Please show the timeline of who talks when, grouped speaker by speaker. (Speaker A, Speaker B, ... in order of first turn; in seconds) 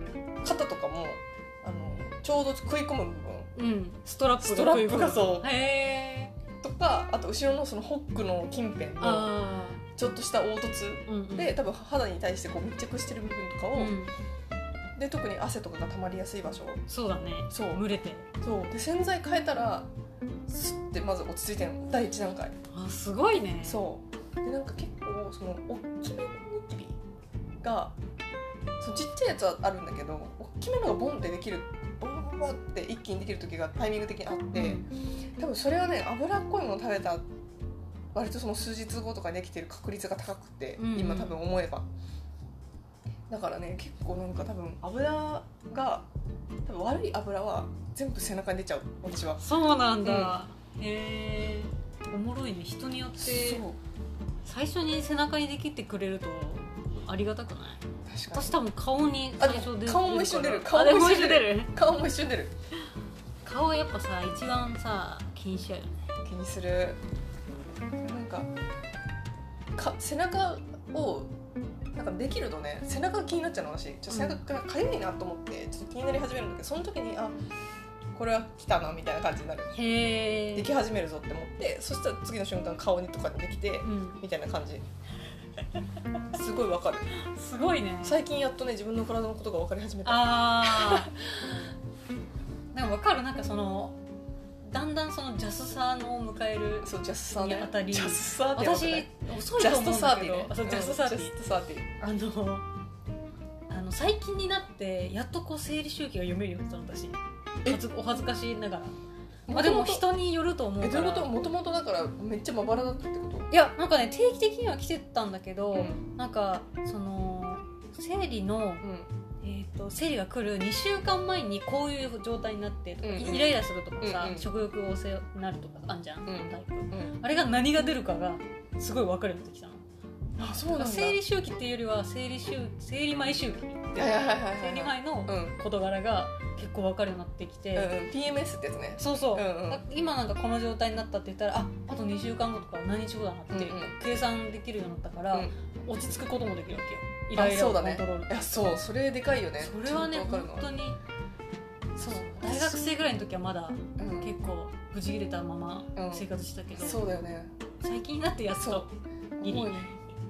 Speaker A: 0.4-3.5, 4.4-5.5, 6.6-9.3, 10.0-13.9, 15.0-16.8, 17.5-17.8, 18.4-19.9, 20.5-22.6, 23.6-27.0, 27.6-28.0, 28.8-34.9, 35.4-37.2, 38.1-41.9, 43.3-46.1, 46.7-49.4, 50.0-50.4, 53.2-53.8, 58.1-58.6, 59.4-62.5, 66.2-67.0, 68.0-68.5, 69.8-71.3, 71.9-77.3, 78.1-79.8, 80.5-84.8, 86.3-87.1, 88.0-91.1, 96.8-101.9, 109.5-110.1, 110.8-113.5, 115.7-116.0, 118.8-119.1, 123.0-124.5, 126.3-127.1, 130.4-131.2, 134.0-135.6, 137.8-139.8, 143.5-143.9, 147.3-150.7, 152.0-152.8, 154.0-154.3, 156.0-157.5, 159.4-159.9
Speaker B: 3.5-6.3, 9.0-9.8, 11.1-11.6, 13.8-14.1, 16.9-18.3, 22.7-23.9, 34.5-34.9, 40.8-41.4, 49.4-53.6, 54.5-61.7, 63.4-66.1, 74.1-74.4, 79.7-80.7, 83.8-84.2, 87.2-88.2, 90.0-91.1, 92.7-94.0, 94.6-101.3, 102.0-102.7, 103.7-109.0, 109.5-111.3, 113.5-118.8, 119.4-129.8, 130.7-137.9, 139.0-148.5, 149.6-151.0, 152.0-157.0, 157.8-158.9, 159.4-159.8